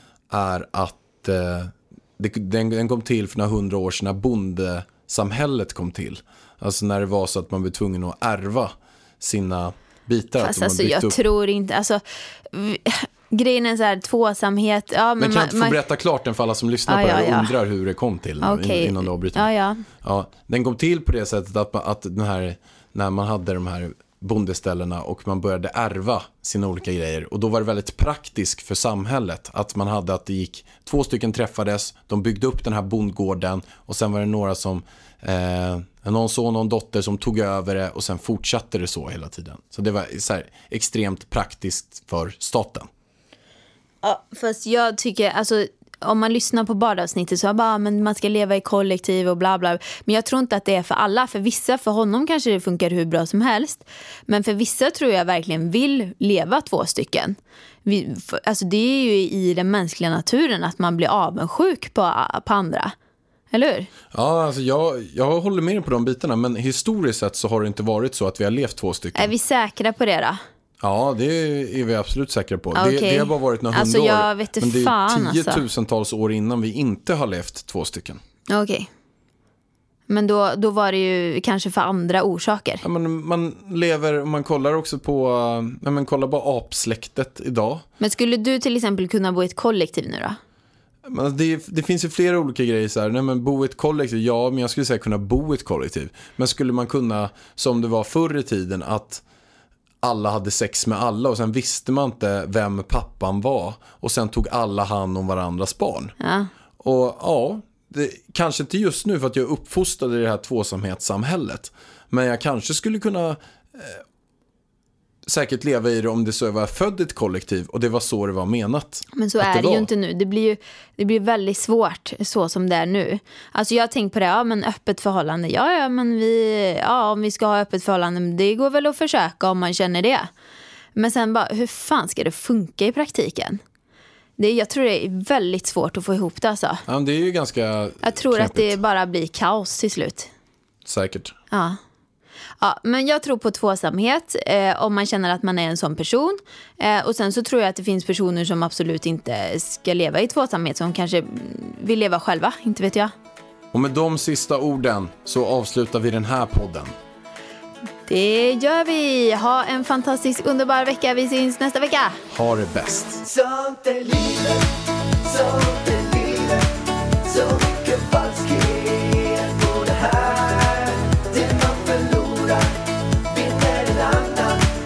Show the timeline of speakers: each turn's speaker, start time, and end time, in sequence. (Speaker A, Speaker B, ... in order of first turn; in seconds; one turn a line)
Speaker A: 0.3-11.2
Speaker B: 10.4-15.8
Speaker A: 15.2-19.5
Speaker B: 16.9-17.5
Speaker B: 18.4-19.9
Speaker A: 20.0-42.9
Speaker B: 44.0-62.9
Speaker B: 63.5-63.9
Speaker A: 64.1-69.3
Speaker B: 69.1-70.4
Speaker A: 70.8-78.2
Speaker B: 72.7-75.6
Speaker B: 78.5-78.9
Speaker B: 80.1-82.8
Speaker A: 82.8-87.9
Speaker B: 88.0-90.4
Speaker A: 91.1-99.2
Speaker A: 100.0-106.1
Speaker B: 106.2-106.5
Speaker A: 106.8-114.0
Speaker A: 115.3-119.9
Speaker B: 119.1-130.3
Speaker B: 130.9-133.6
Speaker B: 134.4-136.8
Speaker A: 136.9-138.8
Speaker B: 138.0-140.3
Speaker A: 140.8-141.3
Speaker B: 141.5-141.8
Speaker B: 142.6-153.1
Speaker A: 153.7-156.9
Speaker B: 158.1-162.2
Speaker A: 162.3-163.2
Speaker C: 163.2-164.7
Speaker C: 165.2-166.7
Speaker C: 167.2-174.6